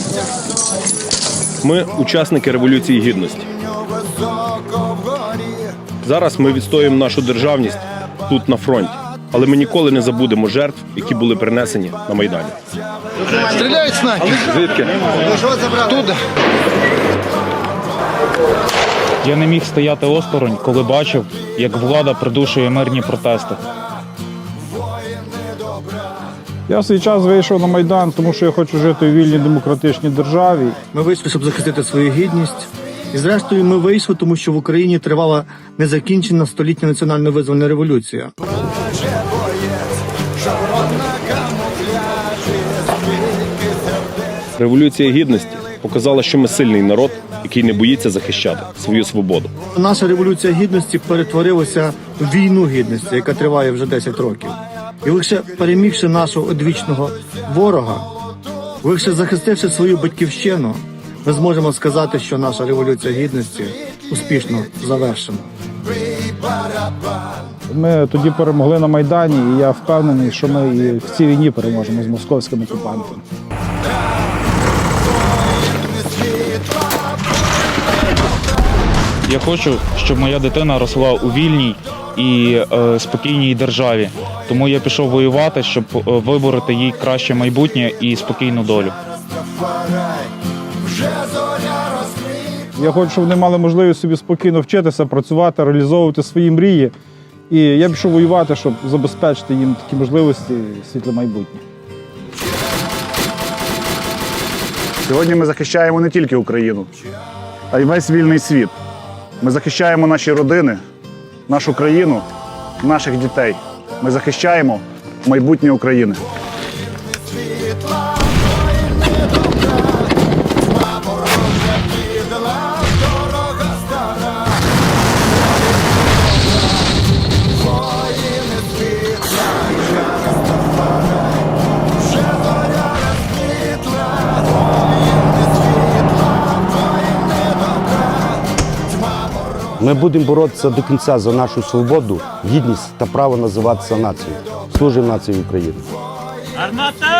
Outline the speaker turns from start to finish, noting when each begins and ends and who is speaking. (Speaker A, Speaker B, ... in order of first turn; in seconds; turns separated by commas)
Speaker A: 1.6-3.5, Speaker A: 6.0-12.5, Speaker A: 13.4-14.9, Speaker A: 15.7-16.1, Speaker B: 19.2-23.6, Speaker C: 26.7-30.8, Speaker D: 30.9-38.3, Speaker A: 44.6-49.5, Speaker D: 49.7-58.1, Speaker D: 58.8-65.5, Speaker C: 67.7-73.2, Speaker B: 79.2-89.0, Speaker C: 92.7-96.9, Speaker C: 97.5-101.6, Speaker E: 105.0-106.9, Speaker E: 107.7-108.7, Speaker E: 109.4-110.8, Speaker E: 111.5-112.2, Speaker E: 112.8-116.2, Speaker F: 139.8-145.8